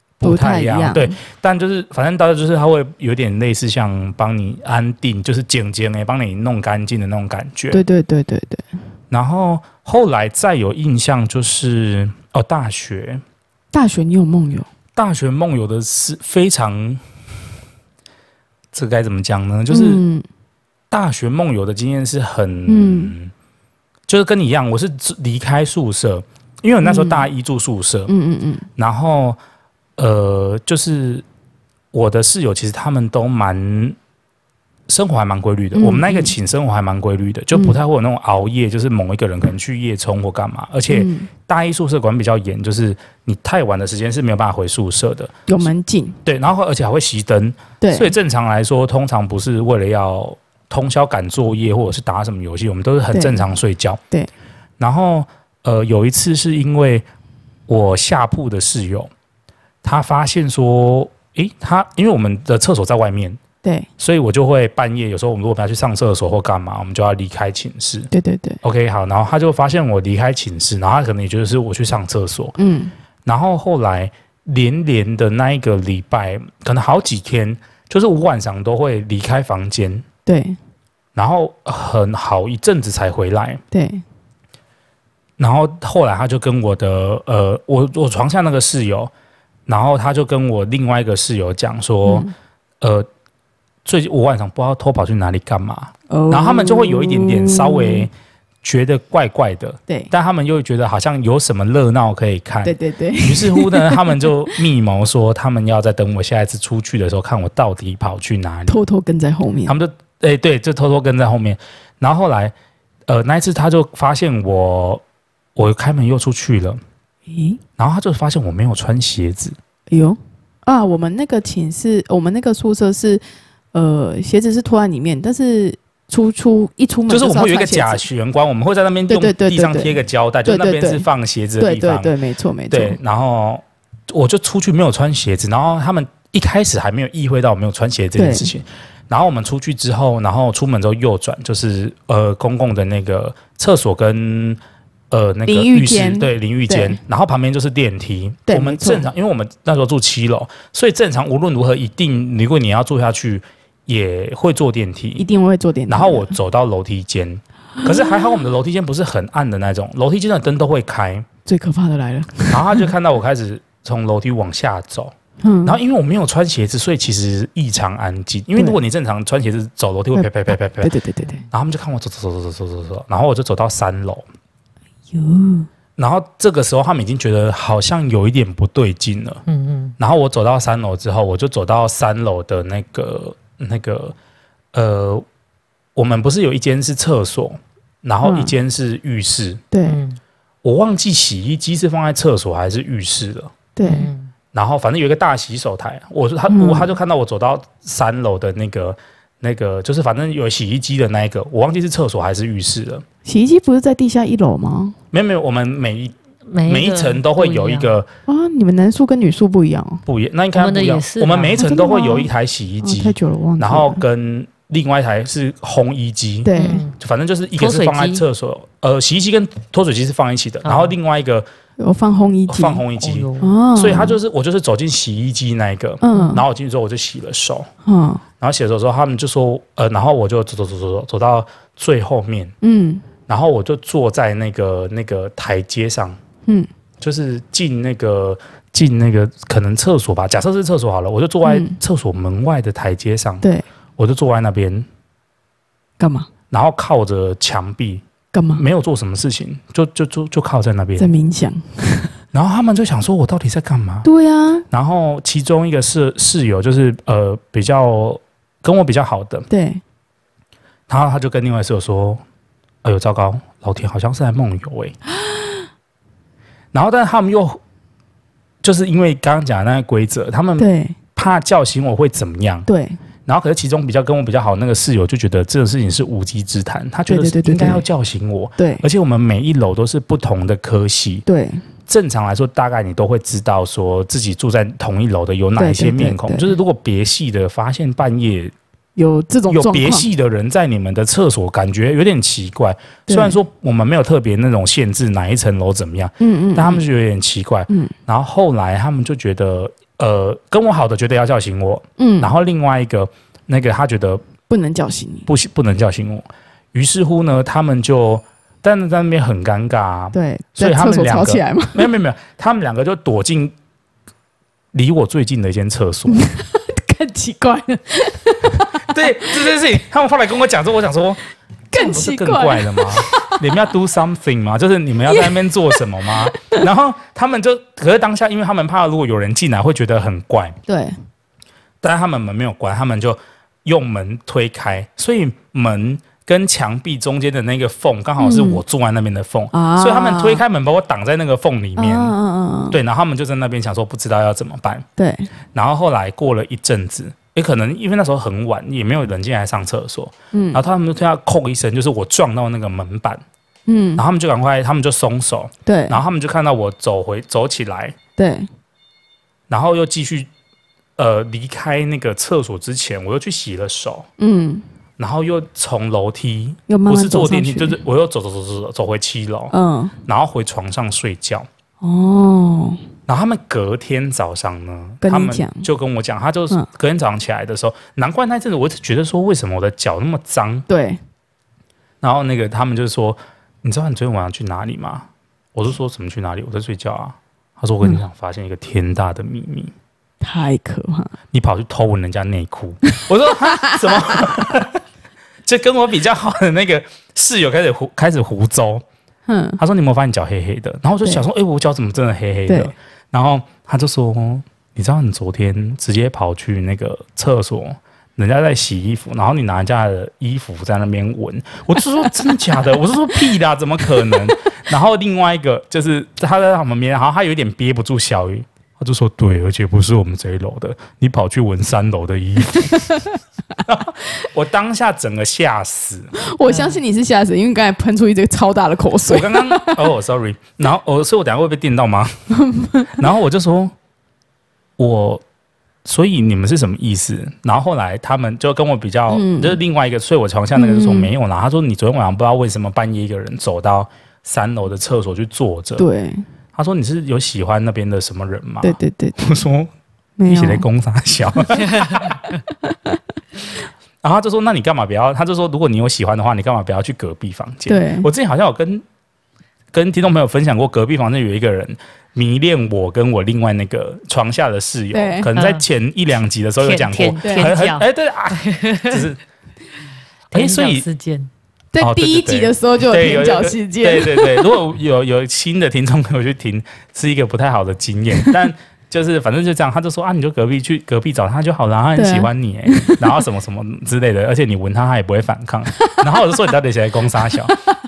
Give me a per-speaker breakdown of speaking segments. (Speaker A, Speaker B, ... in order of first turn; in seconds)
Speaker A: 0.2-7.8, 9.1-13.2, 14.9-17.0, 18.7-20.0, 20.9-23.3, 24.1-28.1, 28.8-29.4, 30.0-31.2, 31.9-34.0, 34.9-45.6, 46.2-54.0, 54.8-57.0, 57.7-59.1, 59.8-63.4, 64.0-68.1, 68.6-72.5, 73.2-80.0, 81.1-83.6, 85.4-89.1, 89.7-92.3, 92.8-93.1, 93.8-98.1, 98.6-108.8, 109.7-112.5, 113.1-115.0, 115.5-116.8, 117.8-119.5, 127.1-132.1, 132.7-144.6, 145.1-155.2, 155.9-161.3, 162.5-170.9, 171.5-174.2, 176.0-179.4, 180.0-184.1, 184.7-185.2, 185.9-189.6, 190.6-193.5, 194.5-203.0, 205.1-206.1, 206.7-208.1, 210.1-221.5, 222.5-227.7, 228.4-232.5, 233.3-236.2, 237.0-243.5, 244.0-244.9, 246.5-251.1, 252.3-254.1, 254.7-259.5, 260.9-262.2, 262.8-264.9, 266.7-267.6, 268.6-272.7, 273.3-281.2, 281.9-288.5, 289.5-304.2, 305.2-313.5, 314.7-316.3, 318.8-321.2, 321.7-330.6, 331.8-342.1, 342.7-344.8, 345.5-353.2, 353.9-357.9, 359.5-360.3, 361.0-364.1, 365.0-369.5, 370.1-371.5, 373.1-380.7, 382.0-389.7, 391.3-394.8, 395.4-398.8, 399.6-423.0, 423.6-426.1, 429.1-432.1, 432.9-433.7, 434.8-435.2, 435.8-445.9, 446.5-449.7, 450.3-452.2, 454.0-458.8, 459.7-469.2, 470.3-470.9, 471.8-487.6
Speaker B: 0.2-1.2, 7.7-8.7, 13.7-14.7, 19.7-20.2, 22.7-23.1, 26.8-27.3, 28.1-28.7, 35.7-36.3, 37.5-37.8, 40.9-41.3, 45.5-46.2, 47.8-48.1, 53.1-53.4, 63.6-63.9, 68.1-68.6, 72.6-72.9, 80.2-80.6, 83.7-84.0, 92.0-92.3, 96.1-98.1, 102.6-104.5, 108.7-109.7, 117.3-117.6, 119.9-123.2, 123.7-128.1, 129.1-131.1, 131.6-133.0, 138.2-138.5, 145.5-147.0, 148.5-149.1, 155.2-156.3, 161.4-162.9, 165.4-165.8, 170.1-171.4, 175.1-175.7, 188.2-188.6, 189.7-190.0, 193.8-194.1, 196.5-196.9, 203.2-204.9, 208.3-210.0, 211.6-212.3, 212.8-214.0, 216.4-216.8, 221.8-222.8, 223.4-224.2, 226.0-226.4, 227.8-228.2, 232.6-233.1, 241.4-241.8, 246.0-246.3, 248.3-248.6, 251.0-252.1, 254.0-254.6, 259.5-259.8, 270.6-271.0, 272.7-273.0, 277.1-277.8, 278.6-278.8, 281.3-281.6, 285.6-286.5, 288.9-290.1, 293.1-293.4, 296.2-296.8, 297.7-297.9, 302.0-302.3, 304.5-305.3, 310.1-311.9, 316.1-318.7, 321.7-323.5, 325.1-325.8, 330.6-331.0, 338.2-338.6, 339.5-340.4, 341.8-342.8, 345.0-345.3, 350.3-350.6, 353.7-354.0, 355.6-356.0, 358.2-358.5, 364.2-364.6, 366.7-367.8, 369.5-369.9, 371.8-372.8, 375.0-375.7, 380.7-381.0, 390.2-391.1, 393.5-393.9, 399.3-399.6, 402.5-402.7, 414.0-414.3, 422.7-423.1, 426.2-429.8, 432.3-433.1, 439.1-439.6, 440.5-441.1, 445.8-446.2, 448.6-449.4, 450.2-450.6, 452.6-453.0, 457.7-458.1, 464.9-465.3, 467.2-467.5, 471.7-474.5, 481.9-483.2
Speaker C: 171.2-171.5, 179.5-179.9, 189.8-190.2, 193.8-194.3, 206.5-208.0, 210.6-211.6, 216.6-217.0, 217.6-218.2, 220.6-220.9, 223.0-223.6, 465.4-465.6, 466.6-469.1, 470.3-471.3